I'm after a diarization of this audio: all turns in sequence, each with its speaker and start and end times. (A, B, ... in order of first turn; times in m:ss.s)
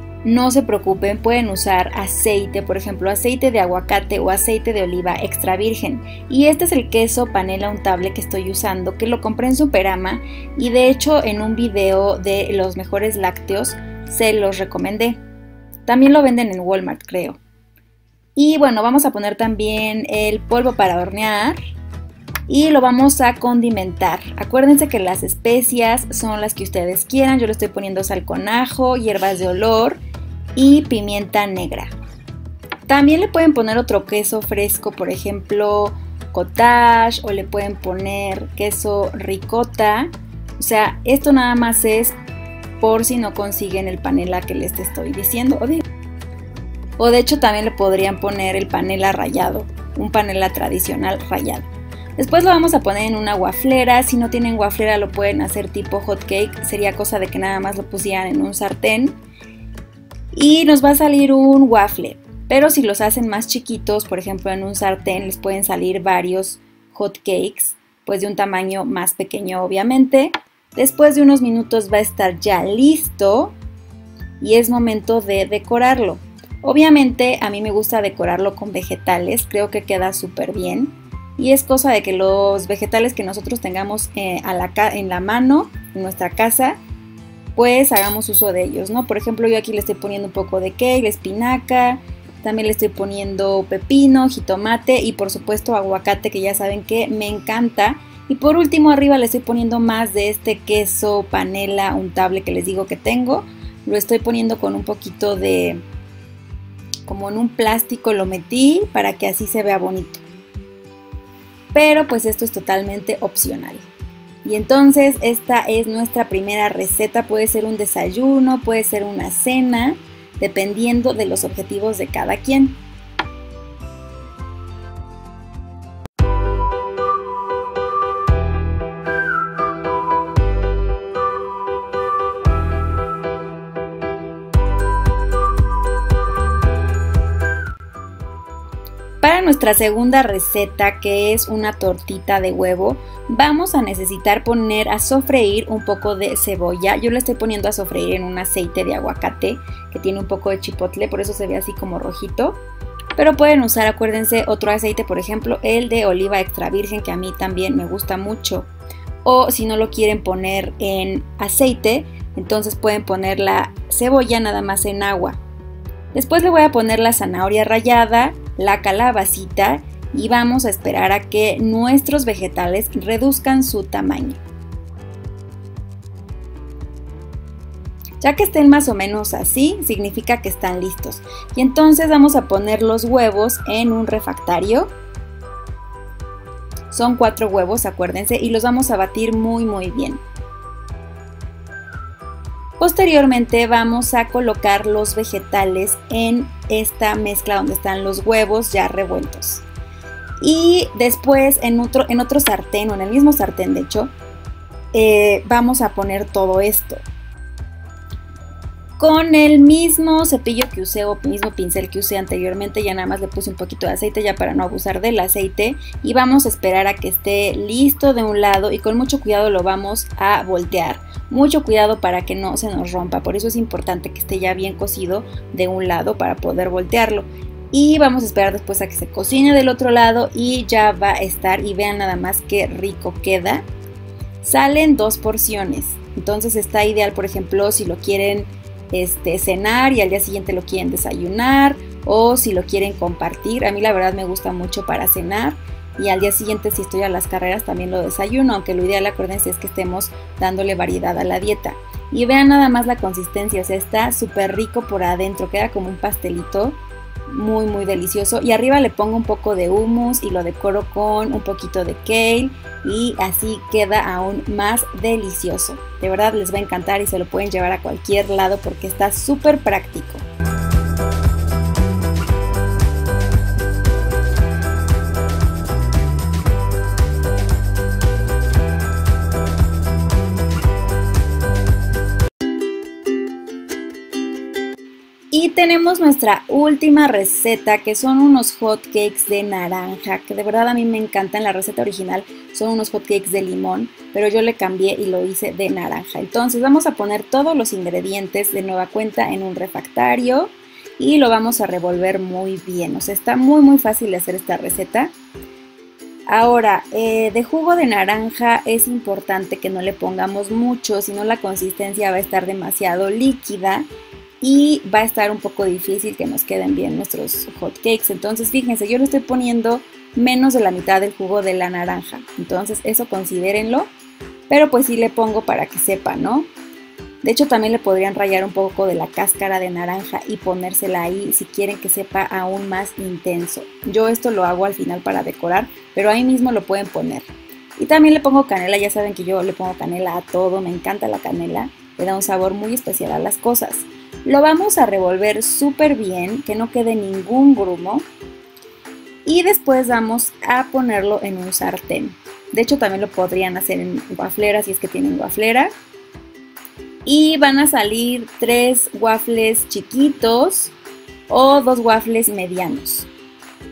0:00.2-0:15.2 A
0:15.8-0:17.4 A
0:18.4-0:21.6 A
0:22.5-0:30.0 A
0:30.6-0:31.9 A
0:32.9-0:42.2 A
0:42.8-0:45.8 A
0:47.0-0:59.2 A
1:00.3-1:13.6 A
1:14.4-1:26.8 A
1:27.5-1:45.8 A
1:47.0-1:50.2 A
1:51.7-1:53.9 A
1:54.4-2:02.8 A
2:19.2-2:32.6 A
2:33.2-2:38.7 A
2:39.2-2:45.4 A
2:46.1-2:54.4 A
2:58.2-3:04.9 A
3:06.9-3:10.2 A
3:12.8-3:19.6 A
3:20.4-3:24.1 A
3:24.9-3:27.0 A
3:29.0-3:53.7 A
3:54.4-4:30.2 A
4:45.3-5:05.1 A
5:06.3-5:13.9 A
5:14.4-5:23.9 A
5:24.5-5:26.5 A
5:27.2-5:48.0 A
5:49.2-5:55.7 A
5:57.0-6:00.7 A
6:01.3-6:03.1 A